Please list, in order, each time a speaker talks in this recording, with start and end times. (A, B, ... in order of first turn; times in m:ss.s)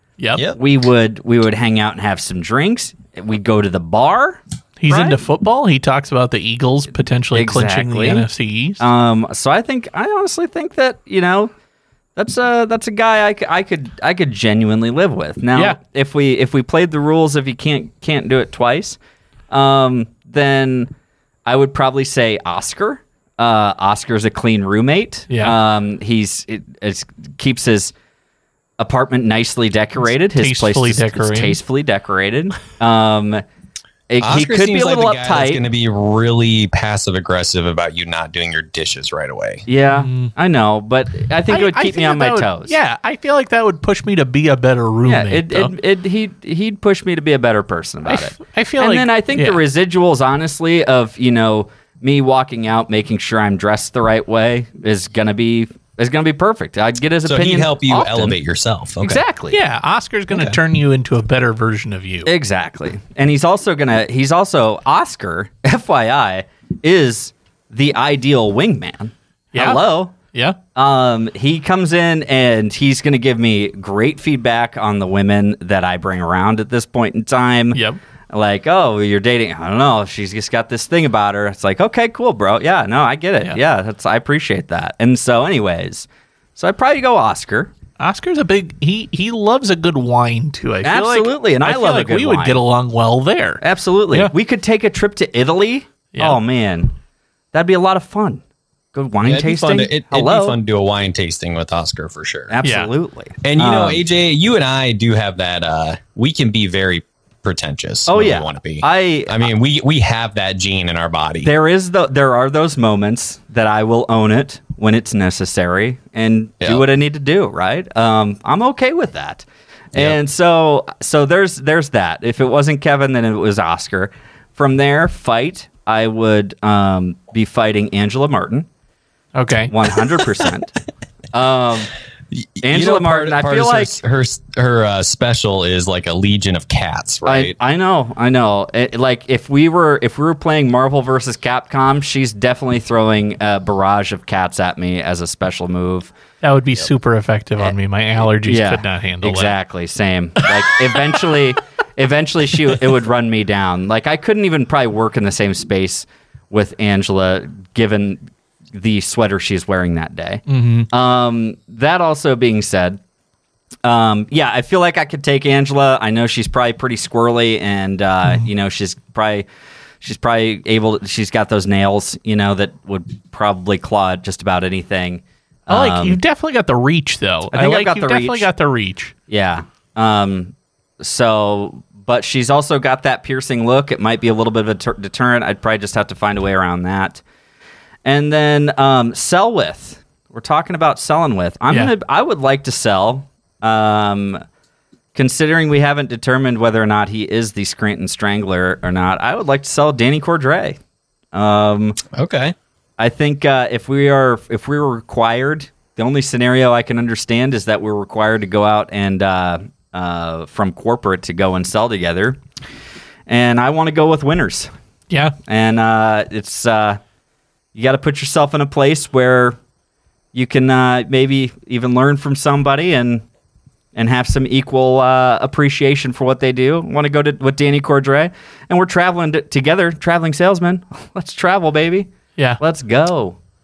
0:00.2-0:00.4 A
0:00.5-0:05.2 B
0:04.8-0:08.8 A
0:07.3-0:08.2 B
0:08.8-0:11.5 B
0:12.2-0:19.0 B
0:19.5-0:20.9 B
0:21.4-0:27.9 B
0:25.3-0:25.6 A
0:28.8-0:33.4 B
0:30.4-0:31.6 A
0:34.1-0:35.6 B
0:34.2-0:39.6 C
0:39.6-0:42.7 B
0:39.9-0:40.3 A
0:41.5-0:45.7 A
0:45.0-0:58.4 B
0:48.1-0:49.6 A
0:57.2-0:59.2 C
0:59.0-0:59.6 B
0:59.5-1:02.3 A
1:02.2-1:10.1 B
1:09.5-1:10.6 A
1:10.8-1:27.7 B
1:28.0-1:34.3 A
1:30.8-1:32.6 B
1:33.6-1:36.9 B
1:37.5-1:38.4 B
1:38.9-1:40.6 B
1:39.2-1:42.5 C
1:42.5-1:44.0 B
1:42.6-1:42.9 A
1:43.4-1:51.5 C
1:48.1-1:49.5 B
1:51.4-2:08.7 B
2:09.3-2:09.7 A
2:09.7-2:10.7 B
2:11.3-2:11.9 B
2:12.3-2:17.6 C
2:12.6-2:14.0 B
2:17.2-2:26.1 B
2:26.4-2:29.5 A
2:28.4-2:43.0 B
2:30.4-2:31.2 A
2:40.5-2:40.9 A
2:43.8-2:49.4 B
2:50.0-2:56.2 B
2:55.7-2:59.1 A
2:57.5-2:58.5 B
2:59.3-3:07.2 B
3:08.0-3:14.4 B
3:15.1-3:20.8 B
3:21.3-3:22.0 B
3:22.1-3:22.5 C
3:23.0-3:32.4 B
3:33.3-3:34.7 B
3:35.1-3:35.4 A
3:35.4-3:37.0 B
3:37.7-3:39.6 B
3:40.3-3:43.2 B
3:43.9-3:53.4 B